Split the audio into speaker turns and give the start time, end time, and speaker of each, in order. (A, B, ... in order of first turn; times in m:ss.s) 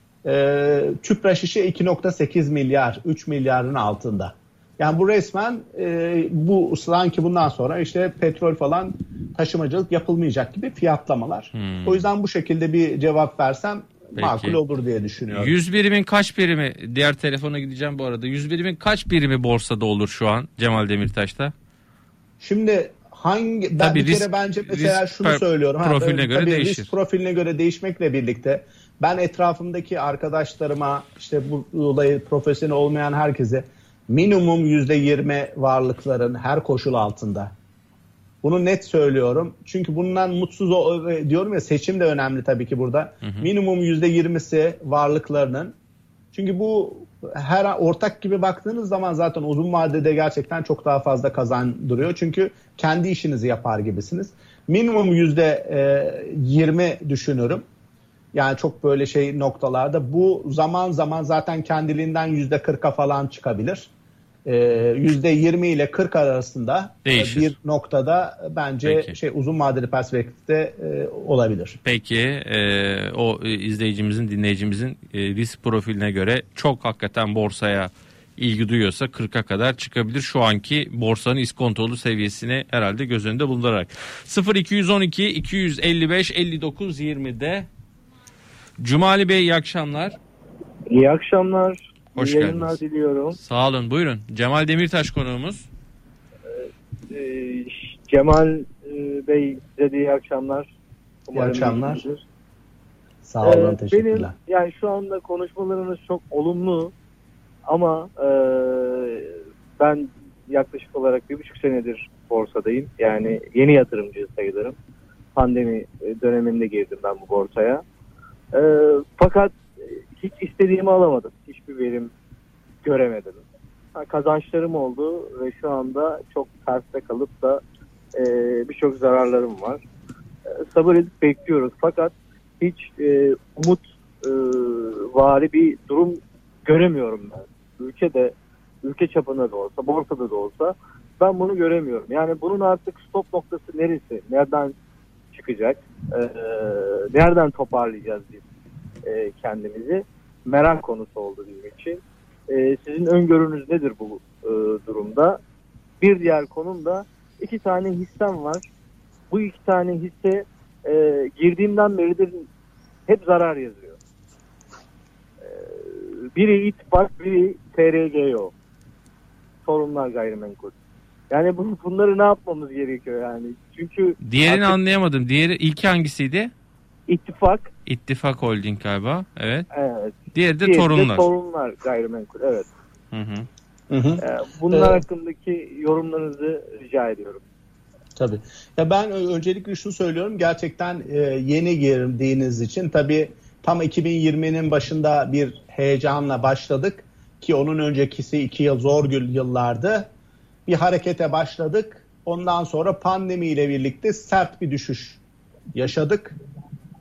0:00.2-0:15.5 A
0:11.5-0:12.0 B
0:14.2-0:14.6 B
0:15.3-0:21.5 B
0:22.4-0:37.5 A
0:23.8-0:26.9 B
0:38.4-0:45.7 A
0:46.3-0:57.6 A
0:58.3-1:03.9 A
1:04.4-1:11.8 A
1:07.0-1:07.5 B
1:08.8-1:09.1 B
1:11.8-1:27.7 B
1:28.8-1:30.2 B
1:30.9-1:33.4 C
1:32.1-1:32.8 B
1:33.4-1:35.7 B
1:36.5-1:40.7 C
1:41.3-1:42.2 C
1:41.3-1:42.0 A
1:43.2-1:44.3 A
1:43.4-1:46.9 C
1:47.6-1:54.7 C
1:55.3-1:57.8 C
1:58.5-2:02.1 C
2:02.8-2:03.4 C
2:03.9-2:07.6 C
2:08.1-2:09.8 C
2:10.7-2:24.7 C
2:25.3-2:28.4 C
2:29.0-2:35.4 C
2:36.0-2:38.6 C
2:39.3-2:42.5 C
2:43.1-2:44.0 C
2:45.4-2:48.5 C
2:49.6-2:50.7 C
2:51.3-2:54.8 C
2:54.2-2:56.5 B
2:57.1-2:57.7 C
2:57.8-2:59.6 B
2:59.7-3:02.7 C
3:00.3-3:01.3 B
3:03.1-3:03.5 B
3:03.9-3:05.0 A
3:04.2-3:07.4 C
3:08.2-3:20.1 A
3:20.6-3:25.2 A
3:25.7-3:26.4 A